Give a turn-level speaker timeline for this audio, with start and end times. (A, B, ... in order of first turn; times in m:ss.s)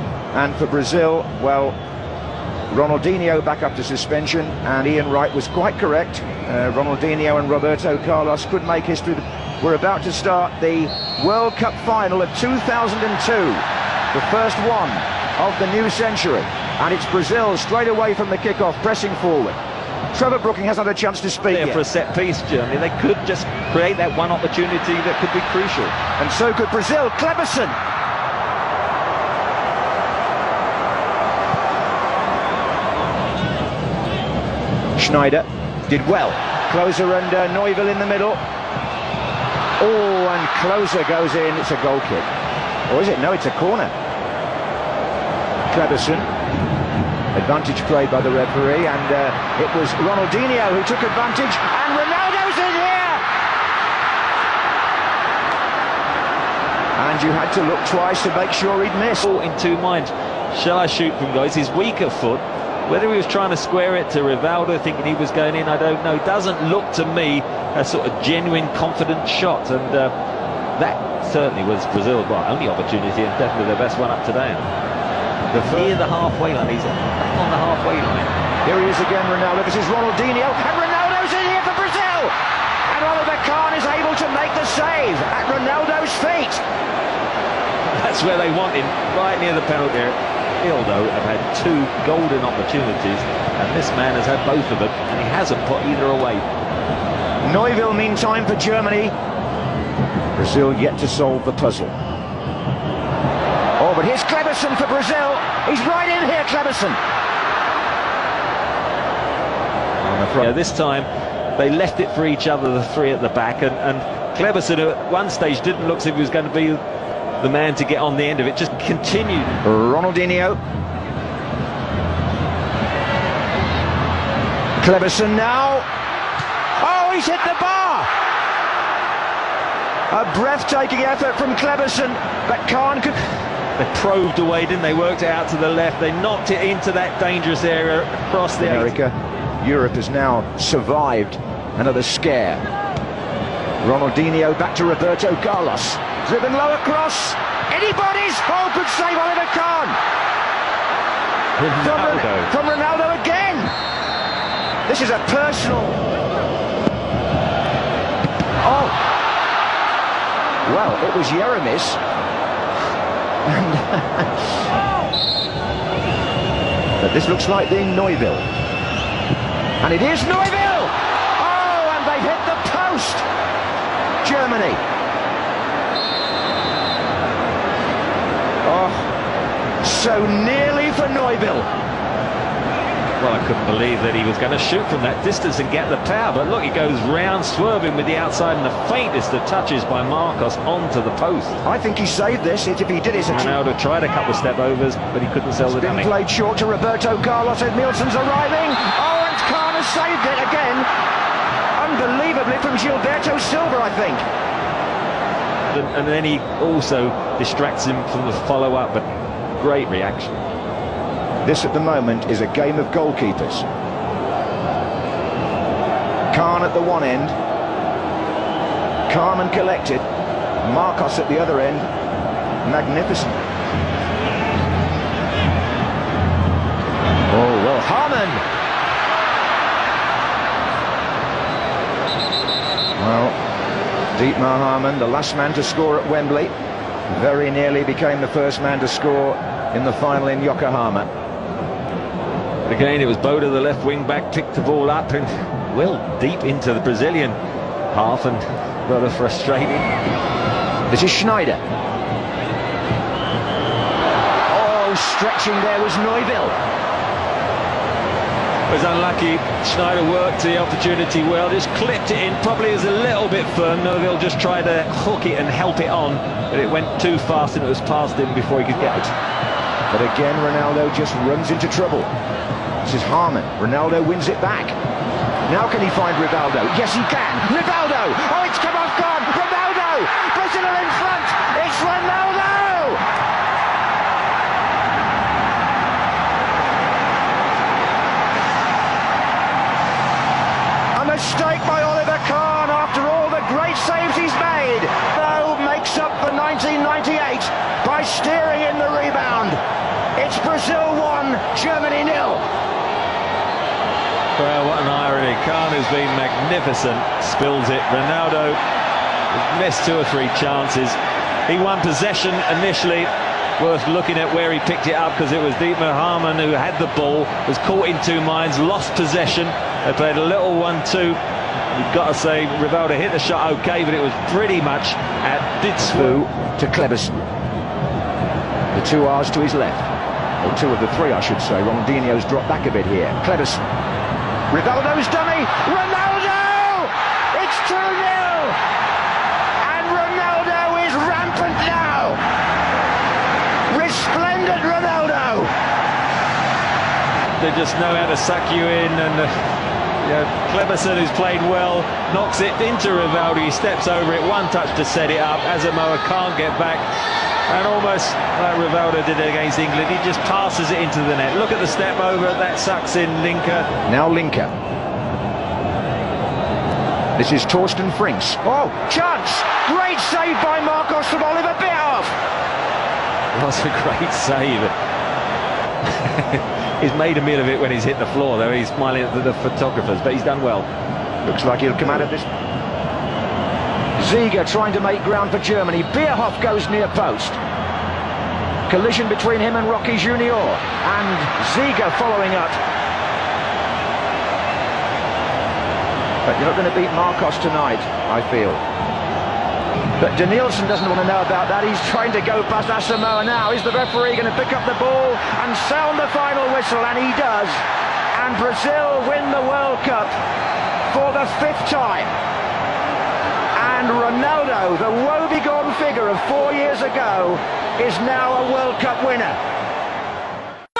0:00.3-0:01.8 A
0:02.7-0:19.6 A
0:20.1-0:21.8 A
0:21.4-0:26.0 B
0:26.2-0:27.7 A
0:35.0-0:38.4 A
0:39.8-0:42.3 A
0:42.9-0:43.9 A
0:45.7-0:46.3 A
0:47.3-0:53.2 A
0:57.0-0:59.2 A
0:59.2-1:10.1 B
1:10.8-1:14.7 B
1:15.5-1:15.9 A
1:15.5-1:18.3 B
1:18.6-1:22.3 A
1:22.9-1:26.6 A
1:27.9-1:36.4 B
1:37.4-1:39.1 A
1:40.4-1:41.9 A
1:43.8-1:47.0 A
1:50.0-1:50.5 A
1:50.4-1:56.8 B
1:57.4-1:59.6 B
1:59.6-2:00.6 A
2:04.8-2:05.9 A
2:06.8-2:08.1 A
2:10.1-2:13.3 A
2:13.8-2:18.9 B
2:18.6-2:22.6 A
2:23.8-2:30.0 A
2:31.6-2:32.5 B
2:31.8-2:33.7 A
2:34.9-2:36.0 A
2:38.6-2:39.0 A
2:40.6-2:42.0 A
2:43.4-2:44.5 A
2:47.0-2:48.5 A
2:49.8-2:53.2 A
2:54.2-2:54.8 A
2:58.6-2:59.1 A
2:59.8-3:01.7 A
3:03.2-3:11.6 B
3:11.6-3:13.6 A
3:13.3-3:16.1 B
3:15.7-3:20.9 A
3:21.8-3:24.2 A
3:25.7-3:29.0 B
3:29.6-3:30.4 B
3:31.4-3:33.6 A
3:36.3-3:37.3 A
3:39.1-3:40.0 A
3:40.6-3:41.9 A
3:42.6-3:43.4 A
3:47.3-3:48.4 A
3:53.0-3:53.4 A
3:54.1-3:56.5 A
3:57.1-4:01.0 A
4:02.6-4:07.4 B
4:07.9-4:09.9 B
4:10.9-4:11.6 A
4:14.5-4:16.6 A
4:18.7-4:29.1 B
4:29.9-4:32.1 A
4:32.8-4:34.8 A
4:35.5-4:43.0 A
4:50.9-4:59.6 A
5:00.2-5:02.4 A
5:04.4-5:08.6 B
5:09.3-5:21.2 B
5:21.7-5:26.2 B
5:25.8-5:27.2 A
5:28.7-5:29.9 A
5:30.4-5:33.6 A
5:34.5-5:38.6 A
5:39.6-5:42.2 A
5:43.7-5:45.5 A
5:47.4-5:49.3 B
5:50.0-5:56.8 B
5:57.5-6:03.7 B
6:03.8-6:04.5 A
6:07.2-6:12.1 A
6:13.3-6:14.7 B
6:15.8-6:20.7 B
6:21.2-6:22.2 A
6:24.0-6:27.4 A
6:28.7-6:32.6 A
6:36.2-6:38.6 A
6:40.0-6:47.6 A
6:48.1-6:50.1 A
6:50.9-6:52.2 A
6:53.6-6:59.4 A